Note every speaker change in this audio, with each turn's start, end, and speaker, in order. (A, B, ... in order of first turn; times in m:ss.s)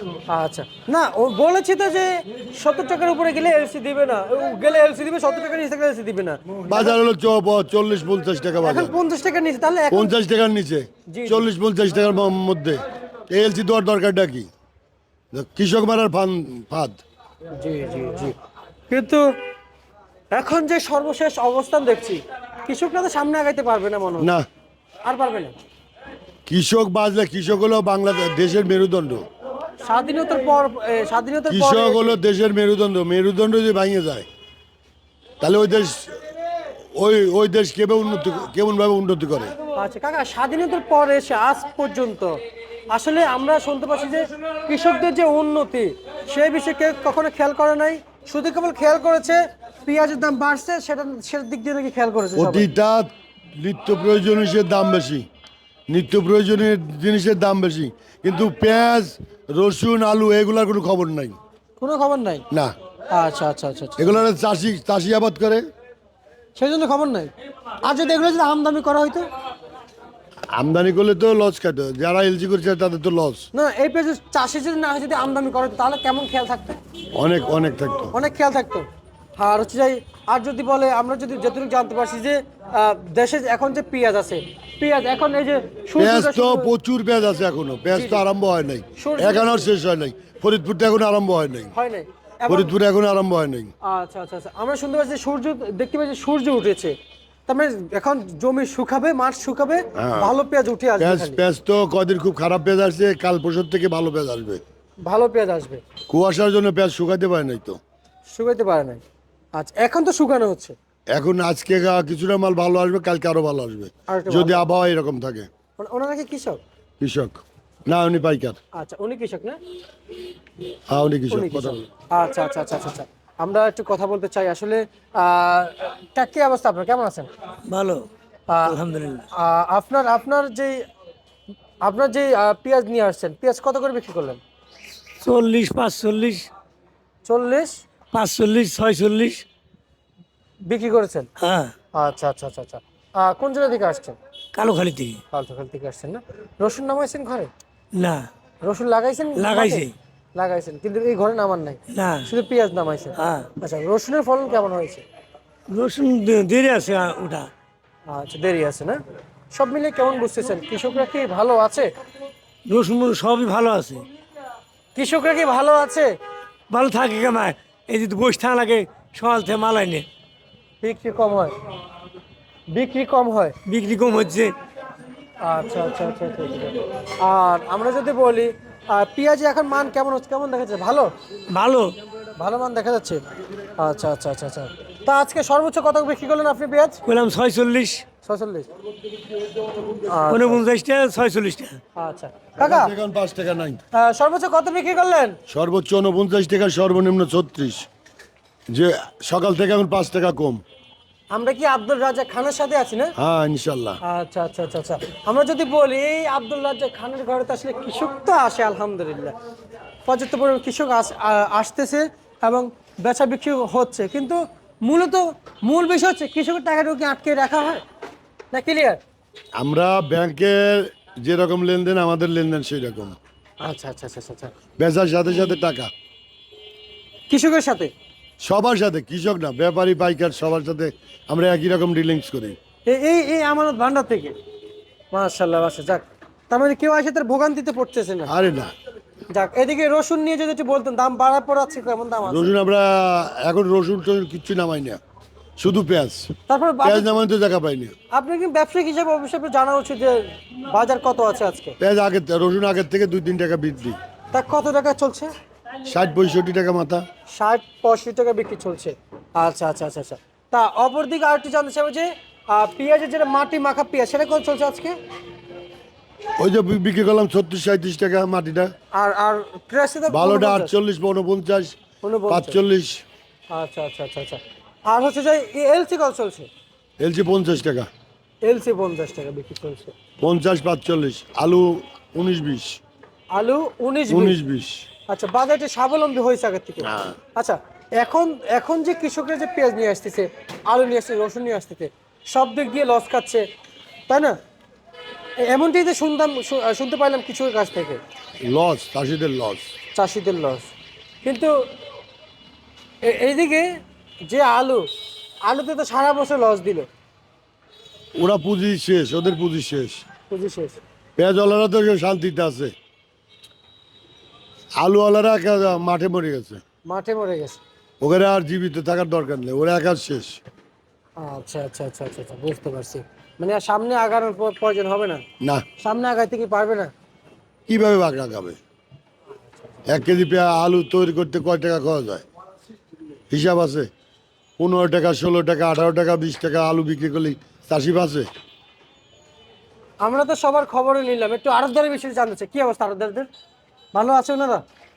0:00.3-0:06.9 A
0:06.7-0:09.0 B
0:08.6-0:10.1 A
0:09.9-0:14.5 B
0:11.1-0:11.5 A
0:15.3-0:17.0 B
0:17.6-0:18.3 A
0:18.9-0:19.2 A
0:20.3-0:24.3 A
0:24.2-0:24.4 B
0:25.0-0:25.5 A
0:26.5-0:29.2 B
0:29.8-0:32.2 A
0:31.5-0:34.2 B
0:35.4-0:36.1 B
0:37.0-0:39.5 B
0:39.7-0:42.4 A
0:42.9-0:52.7 A
0:52.4-0:55.2 B
0:55.9-1:01.4 B
1:01.8-1:02.4 A
1:03.1-1:04.2 A
1:04.0-1:05.6 B
1:06.6-1:07.3 A
1:07.8-1:09.2 A
1:10.5-1:13.5 B
1:13.5-1:16.8 A
1:17.1-1:18.1 B
1:18.1-1:26.7 A
1:26.0-1:31.7 B
1:27.9-1:28.2 A
1:29.0-1:29.7 A
1:31.7-1:32.7 A
1:32.5-1:33.7 B
1:33.8-1:37.0 A
1:37.5-1:41.4 A
1:40.0-1:40.3 B
1:41.0-1:44.6 B
1:45.0-1:45.8 A
1:46.1-1:47.8 B
1:48.3-1:49.0 A
1:49.5-1:50.7 A
1:51.1-1:55.5 B
1:54.1-1:54.7 A
1:55.8-1:56.6 A
1:57.0-1:58.6 B
1:58.8-1:59.6 A
2:00.9-2:01.8 B
2:01.3-2:07.3 A
2:07.7-2:08.1 C
2:08.5-2:08.8 A
2:08.6-2:09.3 C
2:09.3-2:10.8 A
2:11.8-2:14.4 A
2:15.2-2:16.5 C
2:17.2-2:17.8 A
2:18.1-2:19.4 C
2:20.6-2:21.3 A
2:21.4-2:21.7 C
2:21.9-2:24.2 A
2:24.5-2:25.2 C
2:25.3-2:27.5 A
2:27.9-2:28.3 C
2:28.6-2:35.0 A
2:29.4-2:29.9 C
2:31.9-2:32.3 C
2:33.2-2:33.5 C
2:35.7-2:37.5 C
2:38.1-2:39.0 A
2:39.5-2:41.9 A
2:42.6-2:44.0 C
2:44.9-2:46.1 A
2:46.7-2:50.0 C
2:50.8-2:51.5 A
2:52.7-2:53.6 A
2:53.6-2:54.5 C
2:55.4-3:01.1 A
3:01.5-3:02.0 C
3:02.4-3:03.2 A
3:03.8-3:07.0 A
3:07.0-3:08.0 C
3:08.2-3:08.7 A
3:09.9-3:10.6 A
3:10.3-3:11.8 C
3:12.0-3:12.9 A
3:12.6-3:13.8 B
3:13.9-3:15.4 A
3:15.5-3:17.9 B
3:18.7-3:20.6 B
3:21.3-3:23.1 A
3:23.2-3:24.0 B
3:24.0-3:29.3 A
3:30.0-3:37.8 A
3:38.5-3:39.0 A
3:39.6-3:43.2 B
3:43.6-3:44.5 A
3:44.8-3:45.9 B
3:47.3-3:47.9 A
3:48.4-3:52.6 B
3:52.8-3:54.3 A
3:55.1-3:58.3 A
3:58.3-3:58.7 B
3:59.3-4:02.5 A
4:02.3-4:05.0 B
4:05.6-4:06.3 B
4:06.5-4:07.1 A
4:06.8-4:07.9 B
4:08.1-4:11.8 A
4:11.8-4:14.0 B
4:14.3-4:15.3 A
4:15.9-4:17.0 B
4:17.3-4:25.0 A
4:26.4-4:28.7 B
4:28.9-4:30.7 A
4:30.1-4:31.8 B
4:32.0-4:32.6 A
4:32.3-4:33.0 B
4:33.5-4:36.5 A
4:37.0-4:37.9 B
4:38.4-4:39.9 A
4:40.2-4:42.8 B
4:43.3-4:44.4 A
4:44.1-4:44.8 B
4:45.1-4:53.4 A
4:46.9-4:47.2 B
4:54.1-4:54.4 A
4:55.4-4:58.0 A
4:58.4-4:59.6 B
4:59.9-5:00.7 A
5:01.2-5:01.5 A
5:03.0-5:04.9 A
5:05.4-5:06.9 A
5:08.2-5:10.0 B
5:10.3-5:10.8 A
5:11.2-5:12.7 B
5:14.8-5:16.6 B
5:16.8-5:17.6 A
5:18.0-5:20.4 B
5:21.2-5:25.2 A
5:25.4-5:25.6 B
5:25.8-5:26.9 A
5:27.7-5:28.6 B
5:29.9-5:32.2 B
5:33.3-5:33.9 B
5:34.6-5:38.3 B
5:40.0-5:43.3 A
5:43.9-5:44.6 A